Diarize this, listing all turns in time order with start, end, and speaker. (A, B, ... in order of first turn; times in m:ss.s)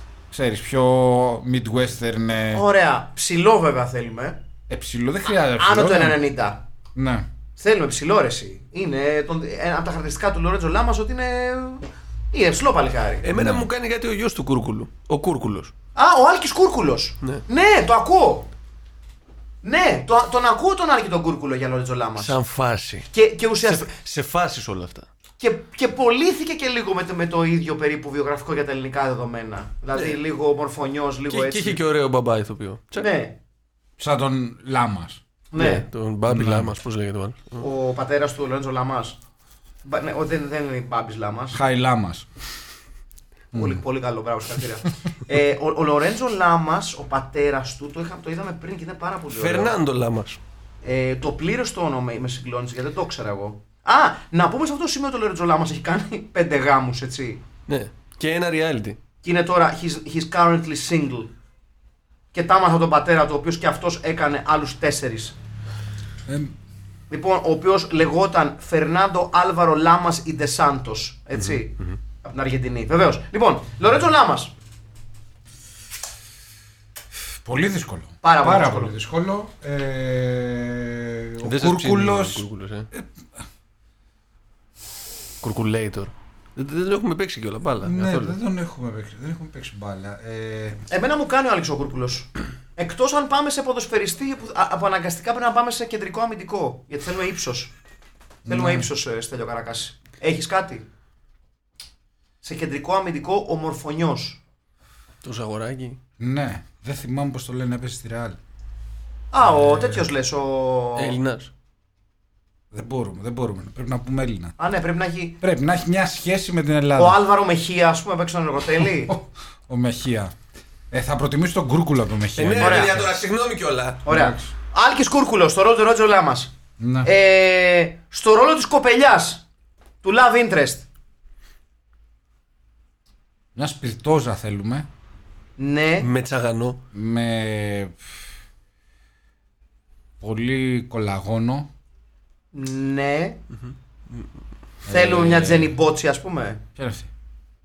0:00.3-0:02.6 A
0:02.5-0:04.4 B
0:04.7-0:06.2 A
0:05.6-0:06.6 B
0:07.0-0:07.3 A
0:07.6-0:13.2 B
0:13.2-0:15.7 C
0:13.3-0:13.6 A
0:15.9-0:18.5 B
0:19.6-0:22.4 B
0:22.2-0:23.1 C
0:23.1-0:23.9 B
0:23.6-0:25.1 C
0:25.4-0:31.8 B
0:31.3-0:33.1 C
0:33.0-0:33.4 B
0:34.0-0:35.2 A
0:35.5-0:35.8 B
0:35.5-0:37.6 C
0:36.3-0:36.8 A
0:37.6-0:39.2 B
0:39.8-0:41.6 B
0:41.5-0:42.3 A
0:43.5-0:43.8 A
0:43.5-0:49.7 B
0:49.3-0:50.4 C
0:50.8-0:57.4 B
0:57.7-0:59.0 C
0:59.2-1:01.3 B
1:02.3-1:05.4 B
1:06.3-1:06.5 A
1:07.1-1:14.5 B
1:17.4-1:23.1 A
1:18.2-1:18.9 B
1:21.4-1:22.9 C
1:25.4-1:28.4 C
1:27.8-1:30.8 A
1:30.9-1:37.7 B
1:38.4-1:38.9 A
1:38.5-1:40.8 B
1:42.4-1:44.4 B
1:45.2-1:46.0 C
1:46.2-1:48.4 A
1:49.3-1:51.2 B
1:49.4-1:50.0 A
1:51.0-1:51.5 C
1:52.7-1:54.5 A
1:54.6-1:55.4 B
1:55.4-1:57.2 A
1:57.0-1:59.1 B
1:58.8-2:00.3 A
2:00.9-2:03.2 A
2:02.4-2:04.0 C
2:02.6-2:03.0 B
2:04.0-2:06.5 B
2:04.1-2:04.5 A
2:06.8-2:07.1 A
2:07.0-2:09.4 B
2:10.0-2:10.9 B
2:13.5-2:14.9 A
2:15.6-2:16.1 B
2:16.0-2:16.8 C
2:16.9-2:18.0 A
2:20.2-2:21.7 A
2:22.5-2:23.4 B
2:23.7-2:24.2 C
2:24.8-2:25.7 A
2:24.9-2:26.6 B
2:26.8-2:27.1 A